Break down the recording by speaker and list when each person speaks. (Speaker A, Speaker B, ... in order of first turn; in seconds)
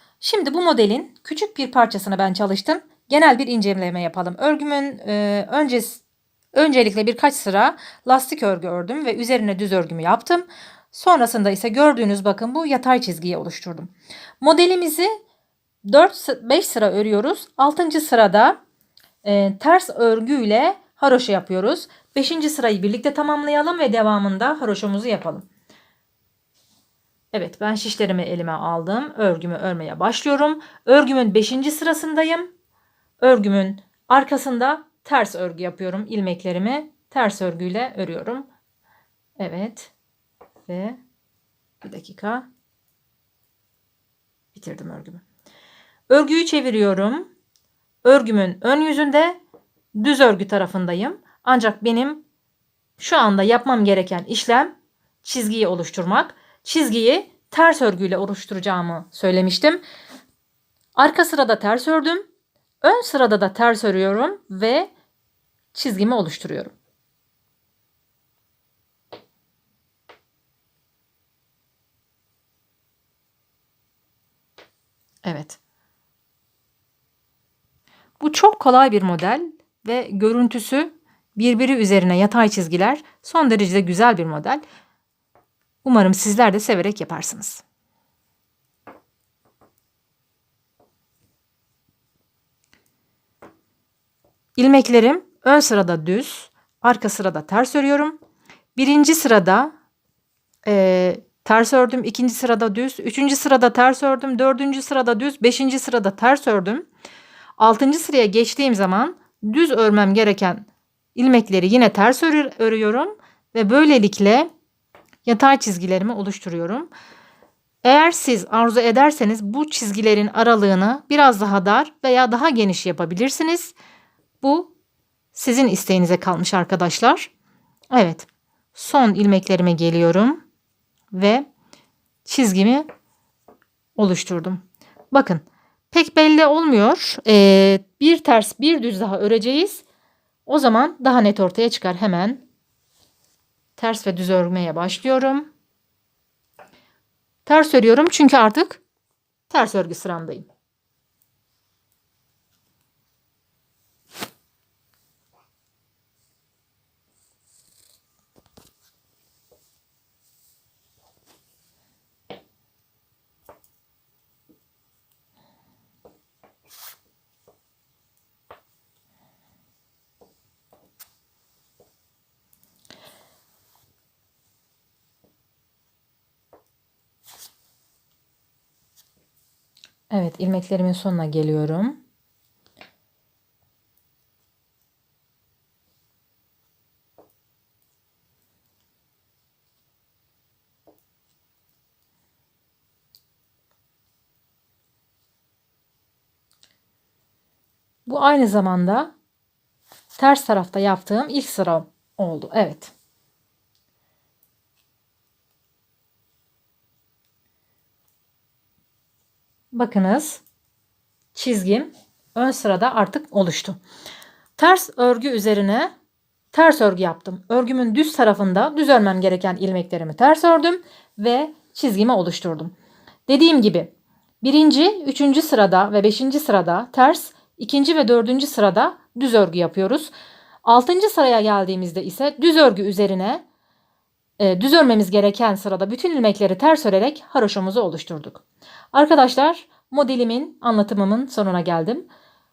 Speaker A: 0.2-6.0, 6.5-15.2, 15.8-18.6, 19.2-25.4, 27.3-32.5, 33.2-38.5, 39.4-39.9, 40.7-41.0, 41.8-42.5, 44.5-45.2, 46.1-47.3, 48.0-49.4, 50.0-52.2, 53.0-59.8, 61.0-62.3, 62.8-64.9, 65.7-66.7, 75.2-75.6, 78.2-84.6, 85.8-87.6, 94.5-98.2, 98.7-99.7, 100.6-106.9, 107.6-114.5, 115.2-116.9, 117.8-123.7, 124.4-124.7, 125.3-127.3, 127.9-130.4, 131.1-131.4, 132.2-132.9, 133.9-139.8, 140.4-142.4, 143.8-145.5, 147.4-148.8, 149.5-150.5, 180.1-182.0, 198.1-199.1, 200.2-202.9, 209.7-210.4, 211.3-213.8, 214.6-215.9, 216.5-222.7, 223.3-223.9, 224.4-230.1, 230.6-233.4, 234.4-242.1